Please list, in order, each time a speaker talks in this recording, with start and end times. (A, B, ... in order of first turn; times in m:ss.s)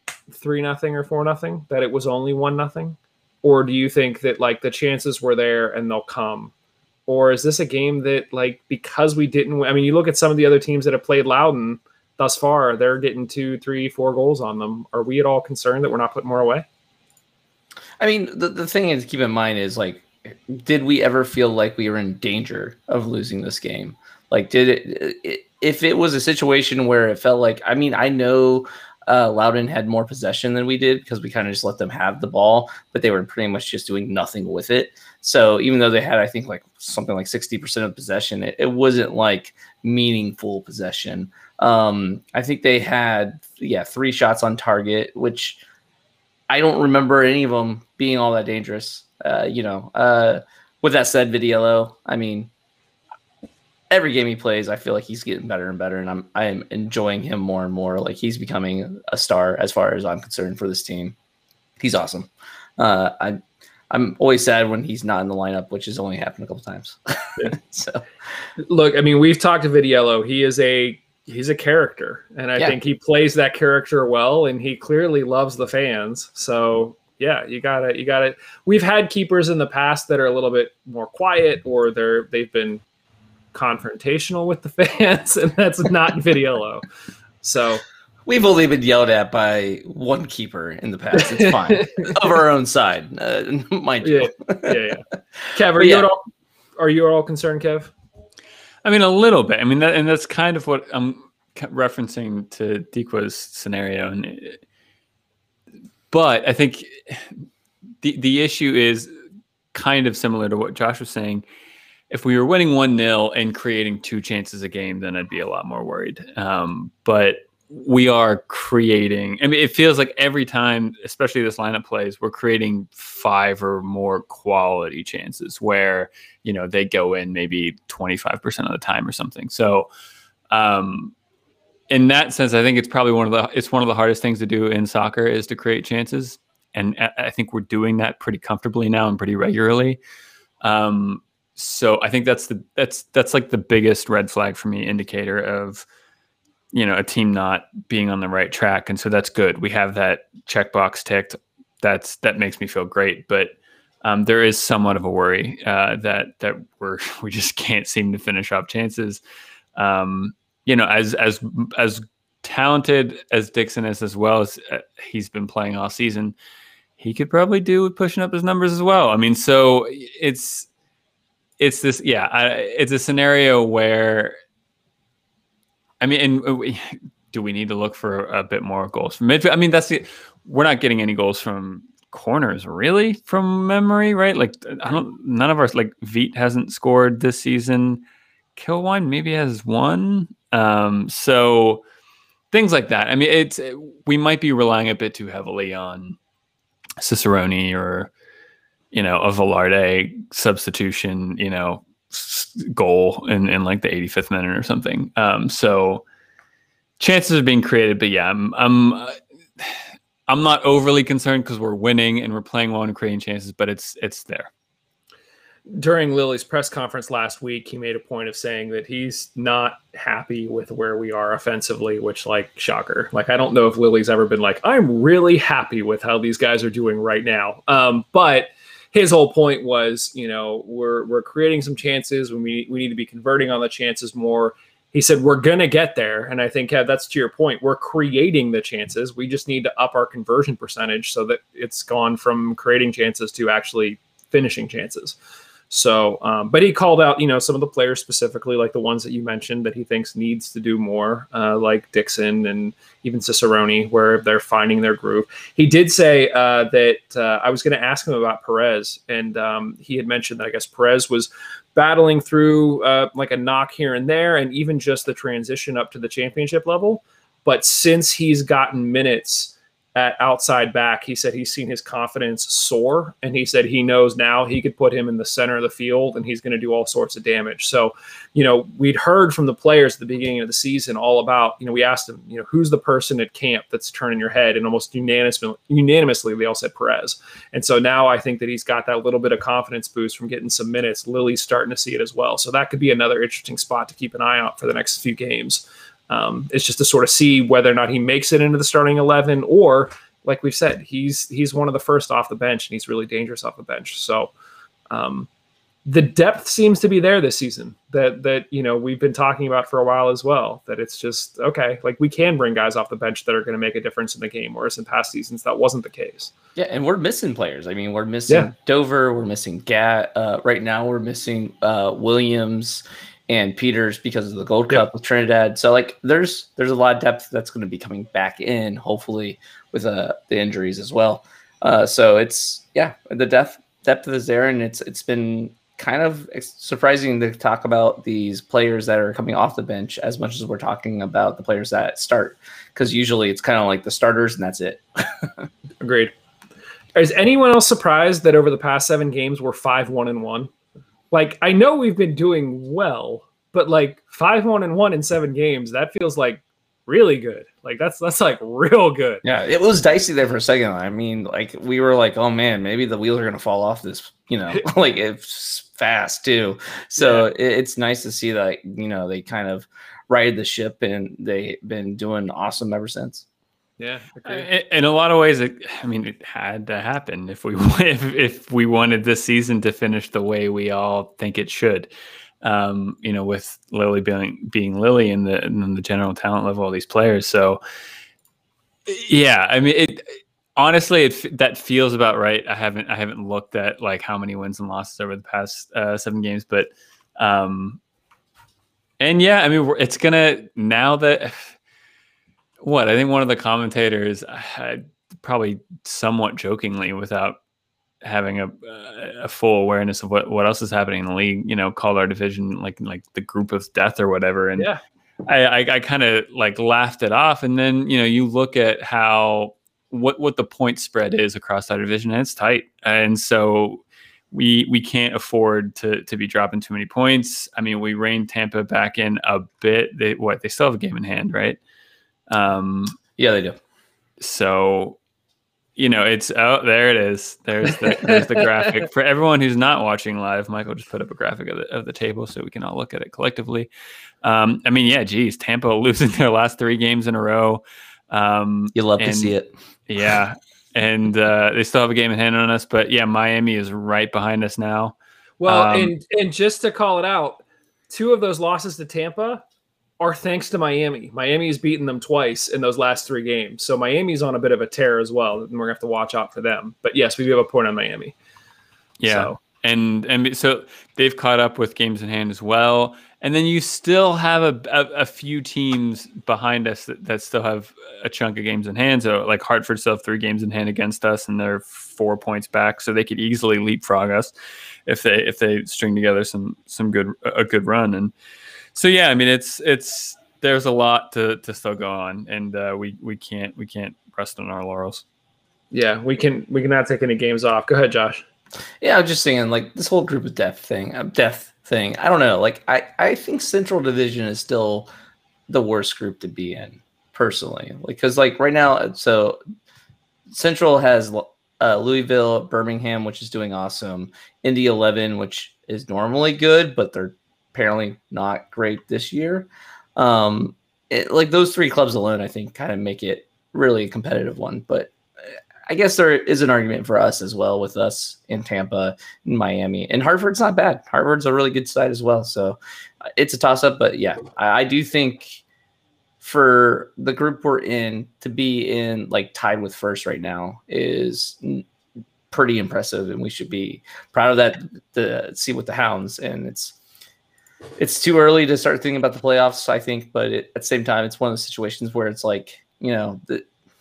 0:00.3-0:06.5 A
0:07.1-0:16.7 A
0:18.0-0:45.6 B
0:46.5-0:52.5 B
0:53.9-1:01.2 B
1:01.8-1:03.4 B
1:03.9-1:08.0 B
1:08.6-1:22.8 A
1:23.5-1:26.8 A
1:27.4-1:27.8 A
1:28.3-1:34.8 B
1:31.2-1:32.1 A
1:34.0-1:36.2 A
1:35.8-1:36.1 B
1:36.8-1:37.9 A
1:38.8-1:44.6 C
1:46.1-1:47.5 C
1:48.0-1:49.1 C
1:49.7-1:51.4 C
1:52.1-2:09.9 C
2:10.5-2:11.1 C
2:11.9-2:20.0 C
2:20.6-2:25.8 C
2:26.7-2:39.2 C
2:39.8-2:46.4 C
2:47.0-2:50.7 C
2:51.6-2:54.4 C
2:56.0-3:08.0 C
3:08.6-3:11.8 C
3:12.5-3:16.2 C
3:17.0-3:18.1 C
3:18.9-3:26.0 C
3:27.0-3:34.5 C
3:35.7-4:05.2 A
4:05.7-5:04.3 A
5:04.9-5:05.3 A
5:05.9-5:16.3 A
5:16.6-5:45.4 B
5:45.8-5:46.1 A
5:47.0-5:50.5 A
5:51.1-5:59.2 A
5:59.2-6:13.2 B
6:07.0-6:07.3 A
6:13.8-6:14.5 A
6:14.2-6:21.9 C
6:22.4-6:27.6 C
6:28.9-6:30.0 C
6:30.6-6:37.8 C
6:39.0-6:41.6 C
6:42.6-6:47.4 C
6:48.0-6:54.7 C
6:55.3-7:11.6 C
7:12.3-7:13.0 C
7:13.2-7:13.6 B
7:14.2-7:15.0 C
7:15.8-7:23.7 C
7:18.0-7:18.6 A
7:24.2-7:29.4 C
7:28.8-7:29.5 B
7:29.9-7:35.0 C
7:35.4-7:39.4 A
7:35.5-7:35.9 C
7:40.0-7:48.2 A
7:49.0-8:04.3 C
7:49.1-7:49.4 A
8:04.9-8:08.1 C
8:08.8-8:15.0 C
8:15.7-8:18.2 A
8:18.8-8:24.9 B
8:25.5-8:29.4 B
8:30.3-8:44.9 B
8:45.7-8:52.6 B
8:53.2-8:55.4 B
8:56.2-9:01.6 B
9:02.3-9:06.8 B
9:07.8-9:13.5 B